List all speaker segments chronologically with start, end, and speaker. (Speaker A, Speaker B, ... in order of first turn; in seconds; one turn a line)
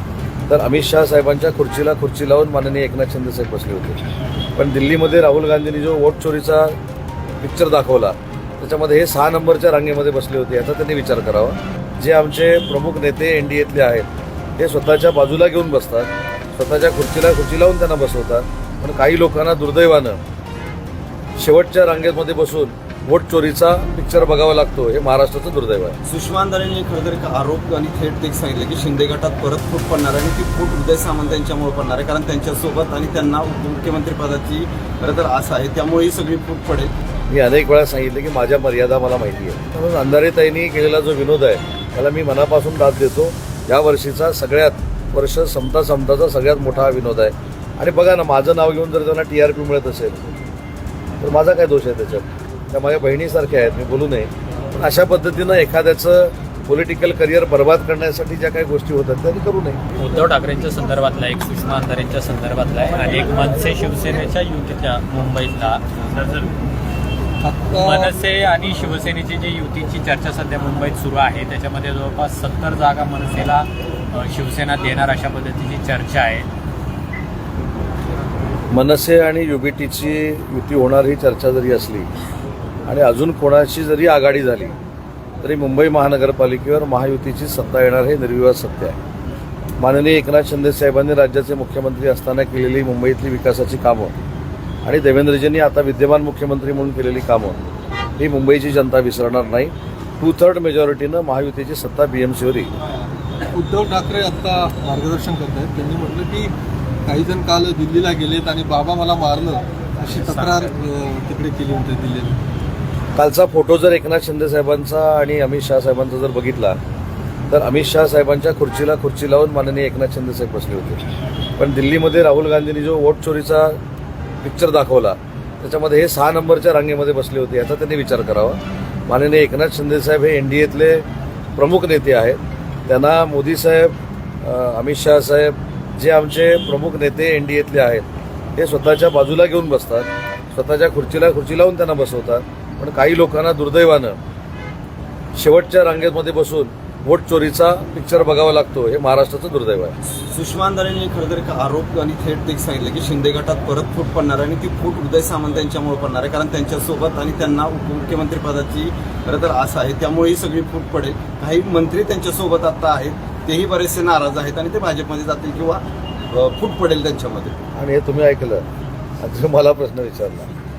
Speaker A: 0.5-4.0
Speaker A: 4.6-6.8
Speaker A: 7.4-14.1
Speaker A: 14.6-20.2
Speaker A: 21.4-26.0
Speaker B: 26.1-36.9
Speaker A: 37.3-50.4
Speaker A: 51.2-59.8
Speaker C: 60.0-66.5
Speaker D: 67.4-68.1
Speaker C: 67.8-76.5
Speaker A: 78.7-82.1
Speaker A: 82.9-84.8
Speaker A: 85.4-89.0
Speaker A: 89.8-94.1
Speaker A: 94.8-97.6
Speaker A: 98.2-102.7
Speaker D: 103.5-106.5
Speaker D: 107.1-112.4
Speaker C: 110.1-110.7
Speaker A: 113.2-116.8
Speaker A: 117.5-121.0
Speaker A: 121.6-123.8
Speaker A: 124.4-131.1
Speaker A: 131.6-144.2
Speaker A: 145.3-149.9
Speaker B: 150.1-167.6
Speaker A: 167.8-168.6
Speaker A: 169.2-170.5